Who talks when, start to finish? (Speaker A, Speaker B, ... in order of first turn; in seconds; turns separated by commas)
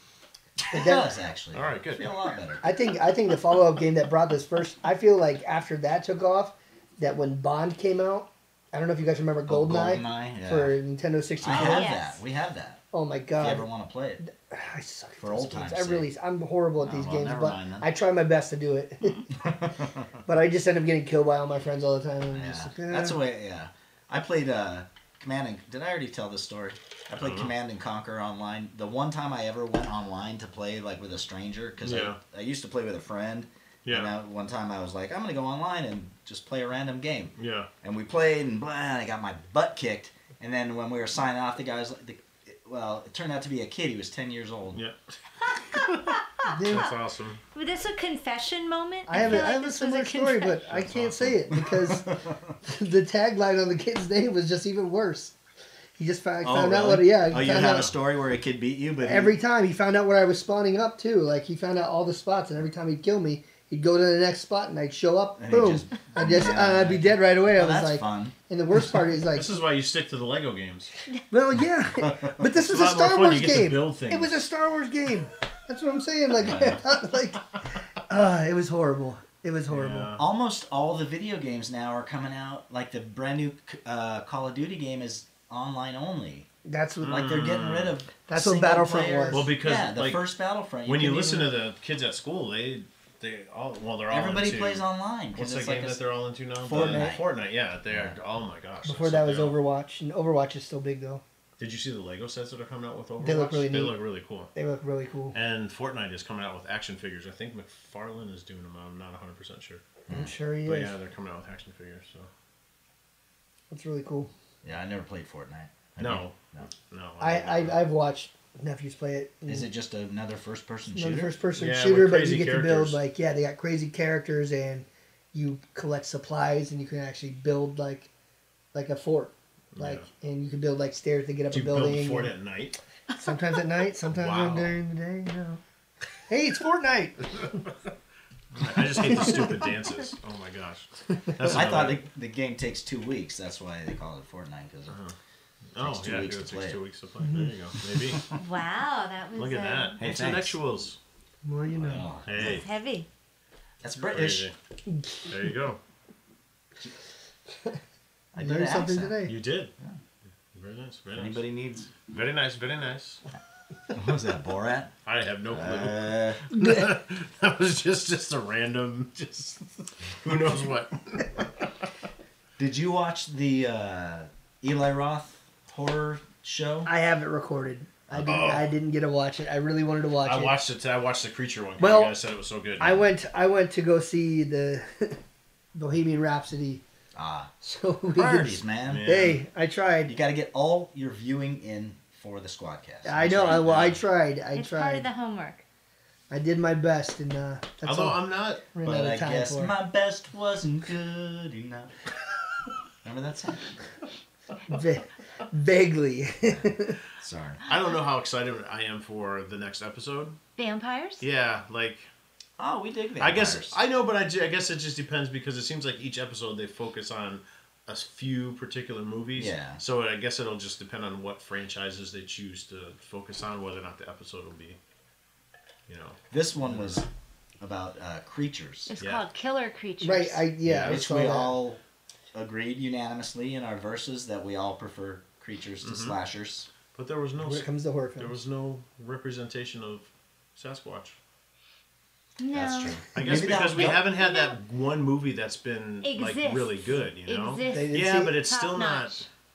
Speaker A: 0.6-2.6, Speaker B: 0.7-1.1, Speaker C: 1.5-2.1, Speaker B: 2.6-12.0, Speaker A: 9.5-10.8, Speaker A: 11.4-12.8, Speaker D: 11.5-12.2, Speaker B: 12.9-13.7, Speaker A: 13.4-14.2, Speaker B: 14.2-19.3, Speaker A: 15.2-16.1, Speaker A: 16.8-17.9, Speaker A: 19.4-20.1, Speaker B: 20.2-23.2, Speaker A: 22.3-44.8, Speaker C: 27.1-27.5, Speaker C: 31.8-32.2, Speaker C: 33.9-34.1, Speaker C: 37.4-37.7, Speaker D: 45.5-46.9, Speaker C: 45.7-46.2, Speaker B: 46.5-46.9, Speaker C: 46.7-47.4, Speaker D: 47.5-50.6, Speaker B: 49.1-55.4, Speaker C: 50.7-51.5, Speaker A: 51.6-52.5, Speaker B: 56.0-57.9, Speaker A: 56.4-59.4, Speaker B: 59.0-69.5, Speaker A: 65.4-68.3, Speaker C: 69.3-70.9, Speaker B: 71.3-80.2, Speaker A: 72.0-72.5, Speaker C: 72.6-74.5, Speaker A: 76.4-76.8, Speaker C: 79.7-80.2, Speaker A: 80.2-86.5, Speaker B: 86.7-87.2, Speaker C: 87.0-88.0, Speaker A: 87.0-91.5, Speaker B: 88.3-89.5, Speaker C: 89.3-90.2, Speaker C: 90.8-99.6, Speaker A: 94.1-96.0, Speaker A: 96.6-97.3, Speaker B: 96.7-97.2, Speaker A: 97.9-98.2, Speaker B: 98.8-101.2, Speaker C: 101.6-104.5, Speaker B: 103.2-104.0, Speaker B: 104.5-105.4, Speaker C: 105.3-109.8, Speaker B: 110.1-110.9, Speaker C: 110.7-112.3, Speaker B: 113.7-114.3, Speaker A: 114.6-116.7, Speaker C: 116.0-117.8, Speaker B: 117.2-119.7, Speaker A: 119.5-121.4, Speaker B: 120.9-128.1, Speaker C: 121.6-123.0, Speaker B: 128.7-132.3, Speaker C: 129.8-130.1, Speaker C: 131.5-132.8, Speaker B: 133.2-135.6, Speaker C: 134.1-134.8, Speaker B: 136.3-137.6, Speaker C: 138.5-142.0, Speaker B: 139.0-139.5, Speaker A: 141.5-145.0, Speaker C: 144.9-145.1, Speaker C: 145.7-148.2, Speaker A: 145.8-146.8, Speaker B: 147.2-147.5, Speaker A: 148.0-148.3, Speaker D: 148.3-150.0, Speaker C: 149.4-151.0, Speaker A: 150.0-150.6, Speaker B: 151.4-152.1, Speaker A: 151.7-152.6, Speaker C: 152.3-152.7, Speaker D: 152.4-153.1, Speaker A: 153.8-154.5, Speaker C: 154.0-154.6, Speaker B: 154.9-155.3, Speaker C: 155.3-155.8, Speaker A: 158.3-159.2, Speaker B: 158.4-159.3, Speaker C: 159.3-159.7, Speaker C: 160.5-161.4, Speaker A: 161.1-161.9, Speaker C: 162.0-163.2, Speaker A: 163.9-164.9, Speaker C: 165.1-171.5, Speaker A: 165.5-166.4, Speaker B: 166.6-166.8, Speaker A: 172.6-176.9, Speaker B: 176.9-180.6, Speaker C: 178.2-178.7, Speaker C: 180.2-183.0, Speaker B: 181.8-182.1, Speaker B: 182.8-185.2, Speaker B: 185.8-186.8, Speaker A: 187.2-187.5, Speaker B: 187.6-190.1, Speaker A: 188.1-189.1, Speaker C: 188.9-189.4, Speaker A: 190.1-194.0, Speaker B: 193.1-195.1, Speaker C: 193.4-194.0, Speaker D: 194.6-195.6, Speaker B: 196.3-199.7, Speaker C: 197.8-198.6, Speaker A: 198.8-201.9, Speaker A: 203.0-203.8, Speaker B: 204.7-207.0, Speaker A: 206.4-207.6, Speaker C: 207.7-210.4, Speaker D: 210.6-211.3, Speaker C: 211.2-212.1, Speaker A: 212.6-213.8, Speaker C: 213.2-224.8, Speaker A: 219.3-219.8, Speaker C: 225.9-227.0, Speaker A: 226.3-227.1, Speaker A: 227.6-228.9, Speaker D: 228.9-230.5, Speaker C: 229.0-229.2, Speaker B: 230.0-231.6, Speaker C: 230.7-231.0, Speaker A: 230.8-231.8, Speaker A: 232.3-236.7, Speaker C: 235.8-236.2, Speaker C: 236.9-241.2, Speaker B: 237.4-238.3, Speaker D: 242.4-244.6, Speaker A: 242.5-244.0, Speaker C: 243.1-249.3, Speaker D: 246.0-249.3, Speaker B: 247.7-248.4